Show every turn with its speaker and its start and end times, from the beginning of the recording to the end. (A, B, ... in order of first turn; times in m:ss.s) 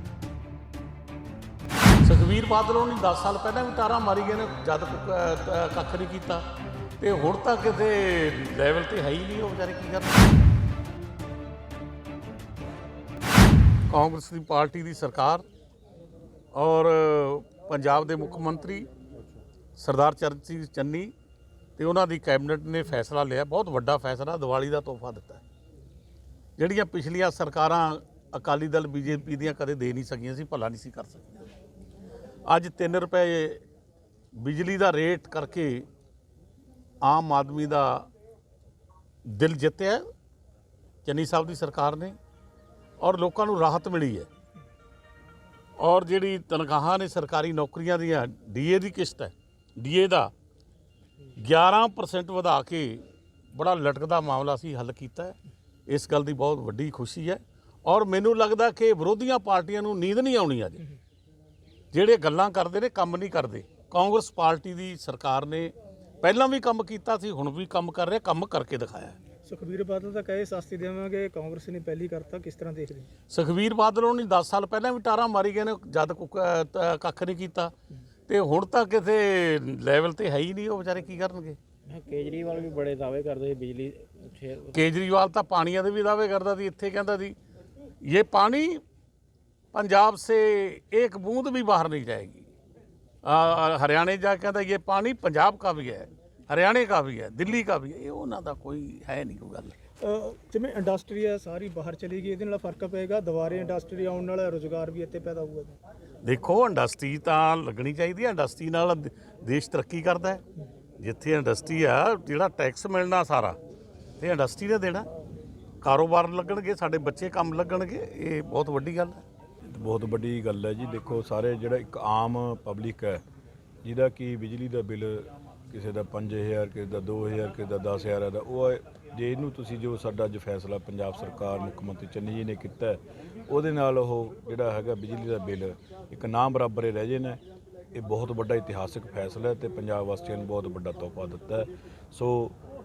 0:02.0-0:06.4 A
0:07.0-0:10.4 A
0:13.9-0:15.4 A
0:16.5-0:18.9 A
0:19.8-0:21.1 A
0:21.8-0:25.4 A
0:26.6-0:31.5 A
0:32.5-0:33.6 A
0:34.4-0:35.8 A
0:37.0-0:38.0 A
0:39.2-0:40.0 A
0:41.0-0:42.1 A
0:43.0-0:44.3 A
0:45.8-0:50.3 A
0:51.4-0:55.4 A
0:55.9-1:00.8 A
1:01.9-1:09.2 A
1:09.4-1:13.1 B
1:13.3-1:17.7 A
1:18.3-1:21.6 A
1:22.1-1:24.5 C
1:24.7-1:27.4 A
1:28.0-1:28.8 A
1:29.7-1:32.5 A
1:33.2-1:39.7 A
1:40.0-1:45.8 B
1:46.2-1:50.4 A
1:51.0-1:53.6 A
1:54.2-1:55.1 A
1:55.8-1:59.2 A
1:59.7-2:03.2 D
2:03.8-2:17.4 D
2:17.9-2:22.6 D